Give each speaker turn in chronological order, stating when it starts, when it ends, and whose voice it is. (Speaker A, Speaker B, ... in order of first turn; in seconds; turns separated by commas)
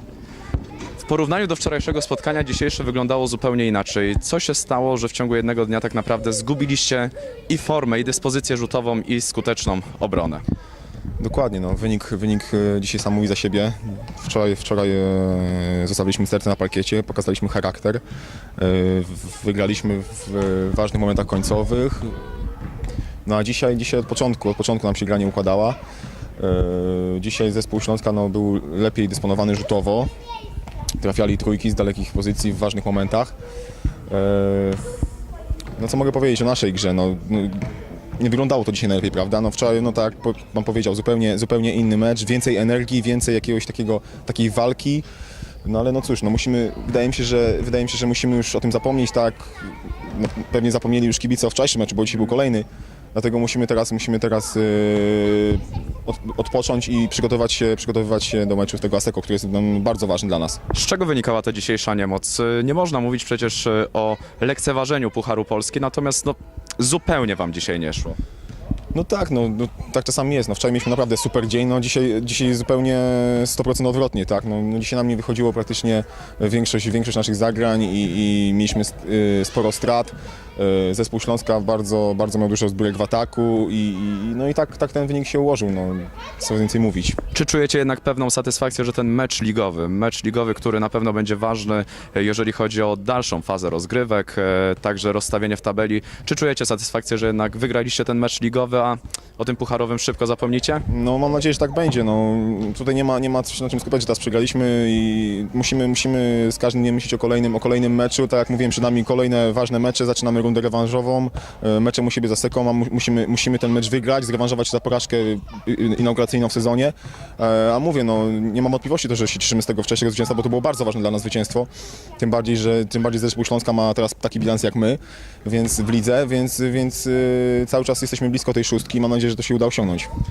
Speaker A: 1.0-10.4, Speaker B: 11.2-18.0, Speaker B: 18.6-22.5, Speaker B: 23.2-25.8, Speaker B: 26.4-30.1, Speaker B: 31.0-33.3, Speaker B: 34.1-34.8, Speaker B: 35.8-45.0, Speaker B: 45.6-60.6, Speaker A: 60.7-68.2, Speaker B: 68.9-87.2, Speaker A: 87.3-100.9, Speaker B: 100.9-130.1